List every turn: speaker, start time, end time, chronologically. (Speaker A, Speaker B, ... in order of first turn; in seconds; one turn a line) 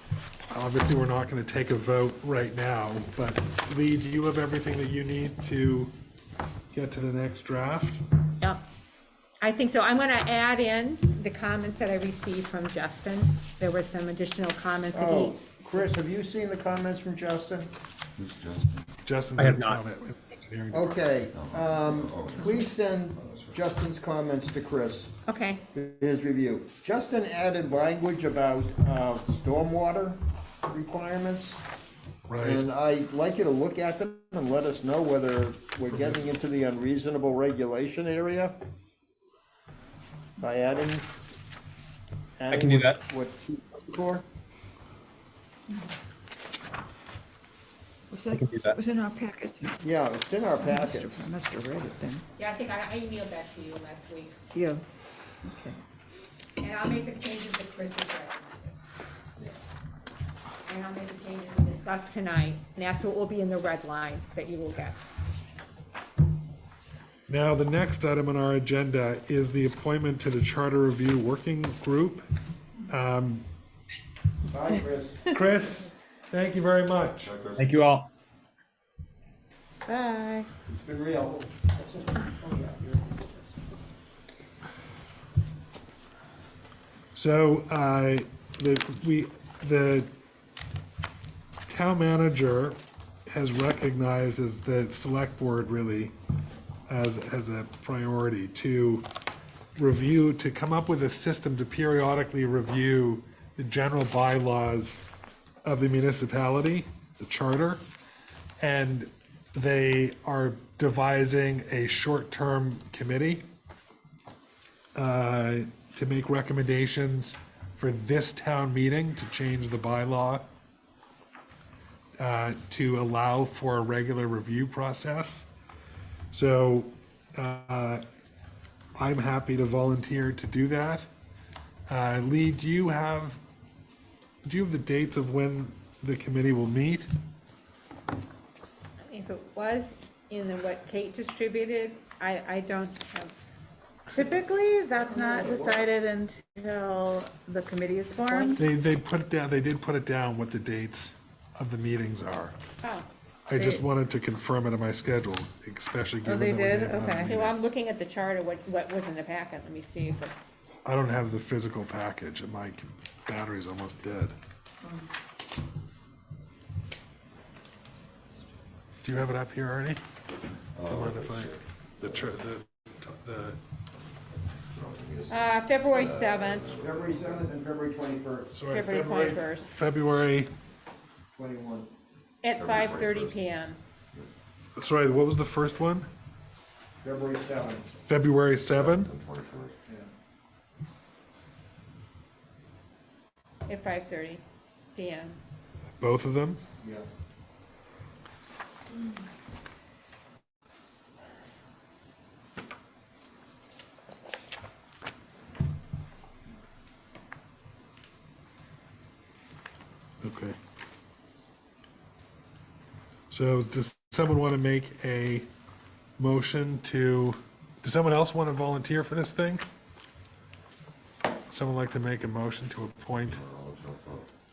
Speaker A: 0.5-5.9
Speaker A: 6.7-8.0
Speaker B: 9.4-15.4
Speaker C: 14.9-17.7
Speaker D: 18.1-18.9
Speaker A: 19.0-21.1
Speaker E: 19.4-19.8
Speaker C: 20.7-25.1
Speaker D: 21.3-22.7
Speaker D: 23.3-23.6
Speaker B: 25.3-25.6
Speaker C: 25.7-31.6
Speaker A: 32.3-32.6
Speaker C: 32.4-38.6
Speaker A: 35.9-36.4
Speaker C: 40.4-41.1
Speaker C: 42.4-44.2
Speaker E: 42.5-43.0
Speaker F: 48.1-49.8
Speaker E: 48.3-48.8
Speaker C: 49.8-51.3
Speaker F: 50.6-52.2
Speaker B: 52.4-54.4
Speaker F: 54.5-54.8
Speaker F: 55.4-55.8
Speaker B: 56.6-58.7
Speaker B: 60.6-65.0
Speaker A: 67.3-72.2
Speaker A: 72.9-73.4
Speaker C: 74.5-75.3
Speaker A: 75.3-77.3
Speaker D: 77.2-77.7
Speaker E: 77.6-78.1
Speaker G: 79.9-80.5
Speaker C: 80.7-81.5
Speaker F: 82.4-83.4
Speaker A: 87.1-90.1
Speaker A: 91.7-96.1
Speaker A: 96.9-99.1
Speaker A: 99.7-105.0
Speaker A: 105.6-107.8
Speaker A: 108.6-113.4
Speaker A: 114.9-120.4
Speaker A: 122.2-125.5
Speaker A: 126.3-128.0
Speaker A: 128.9-131.1
Speaker A: 131.9-133.4
Speaker A: 134.4-137.1
Speaker B: 139.1-143.3
Speaker B: 144.1-144.4
Speaker G: 144.1-148.6
Speaker C: 144.9-145.9
Speaker A: 148.6-152.6
Speaker B: 152.8-153.1
Speaker A: 153.5-157.5
Speaker G: 153.6-153.8
Speaker G: 156.2-157.3
Speaker B: 157.2-160.3
Speaker A: 160.8-164.3
Speaker A: 169.0-170.0
Speaker D: 170.7-172.3
Speaker A: 170.8-173.6
Speaker D: 174.7-177.4
Speaker B: 175.3-176.7
Speaker C: 176.7-178.5
Speaker A: 178.5-180.5
Speaker B: 178.7-179.7
Speaker C: 181.3-181.9
Speaker B: 182.4-183.8
Speaker D: 182.5-183.4
Speaker A: 184.8-186.1
Speaker C: 187.0-187.8
Speaker A: 188.1-189.1
Speaker D: 188.7-189.8
Speaker B: 193.7-194.4
Speaker B: 194.9-195.4
Speaker A: 196.0-196.6
Speaker A: 210.2-210.6
Speaker A: 213.3-215.5
Speaker A: 216.2-219.6
Speaker A: 221.5-223.4
Speaker D: 223.2-224.3